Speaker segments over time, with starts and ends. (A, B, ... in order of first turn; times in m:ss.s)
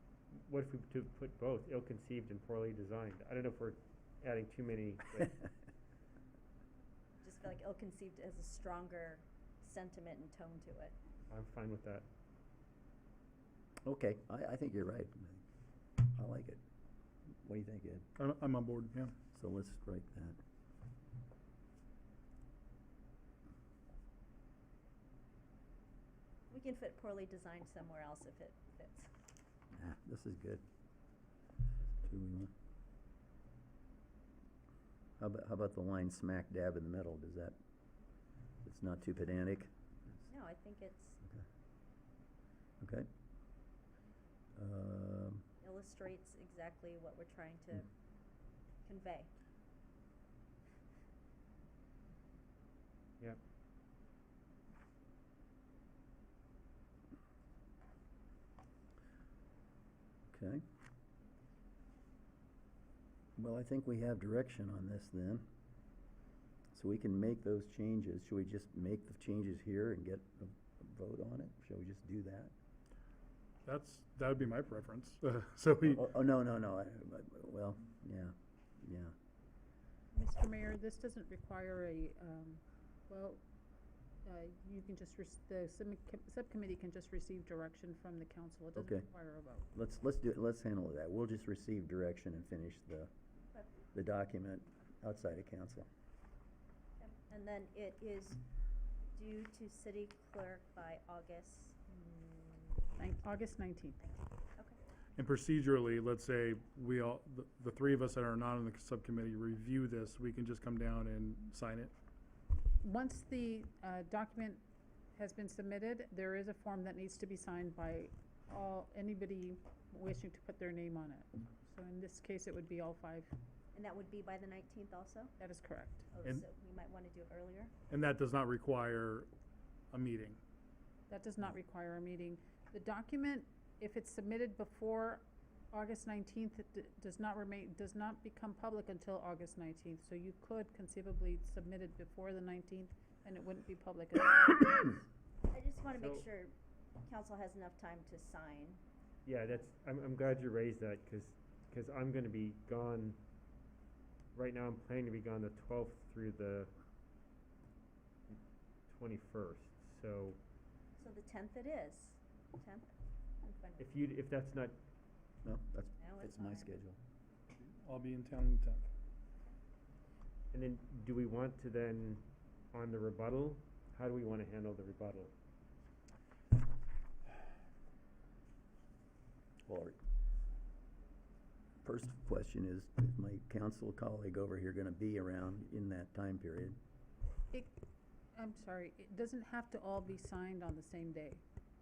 0:00.3-0:05.4 A
0:07.2-0:11.0 B
0:11.3-0:12.1 A
0:13.8-0:15.4 C
0:16.0-0:16.6 C
0:17.4-0:18.1 C
0:18.2-0:19.2 D
0:19.3-0:20.4 C
0:26.5-0:29.1 B
0:29.7-0:30.6 C
0:32.0-0:32.5 C
0:35.2-0:37.6 C
0:38.6-0:39.7 C
0:40.3-0:41.2 B
0:42.8-0:43.1 C
0:44.6-0:45.5 C
0:45.6-0:47.9 B
0:48.8-0:49.3 B
1:00.3-1:00.6 C
1:03.4-1:05.4 C
1:06.7-1:12.5 C
1:13.6-1:16.0 D
1:15.9-1:19.1 C
1:20.1-1:23.4 E
1:24.2-1:29.7 E
1:28.8-1:29.1 C
1:29.7-1:33.1 C
1:33.9-1:35.9 C
1:37.0-1:38.4 B
1:39.2-1:43.0 B
1:43.0-1:44.0 E
1:44.0-1:44.8 B
1:45.2-1:51.9 D
1:52.8-1:54.6 E
1:55.1-2:03.3 E
2:03.7-2:05.3 B
2:05.4-2:06.1 E
2:06.1-2:07.7 B
2:07.9-2:09.3 D
2:09.9-2:10.4 D
2:11.1-2:25.0 E
2:25.5-2:28.8 B
2:25.9-2:26.2 A
2:29.3-2:33.2 A
2:34.4-2:36.7 A
2:38.9-2:40.4 A
2:41.0-2:42.9 B
2:43.4-2:44.0 B
2:43.8-2:44.8 A
2:45.4-2:47.0 C
2:46.0-2:46.8 B
2:47.6-2:48.8 D
2:50.5-2:55.3 A
2:59.6-3:00.0 C
3:01.8-3:06.8 C
3:07.5-3:07.8 E
3:08.4-3:11.4 E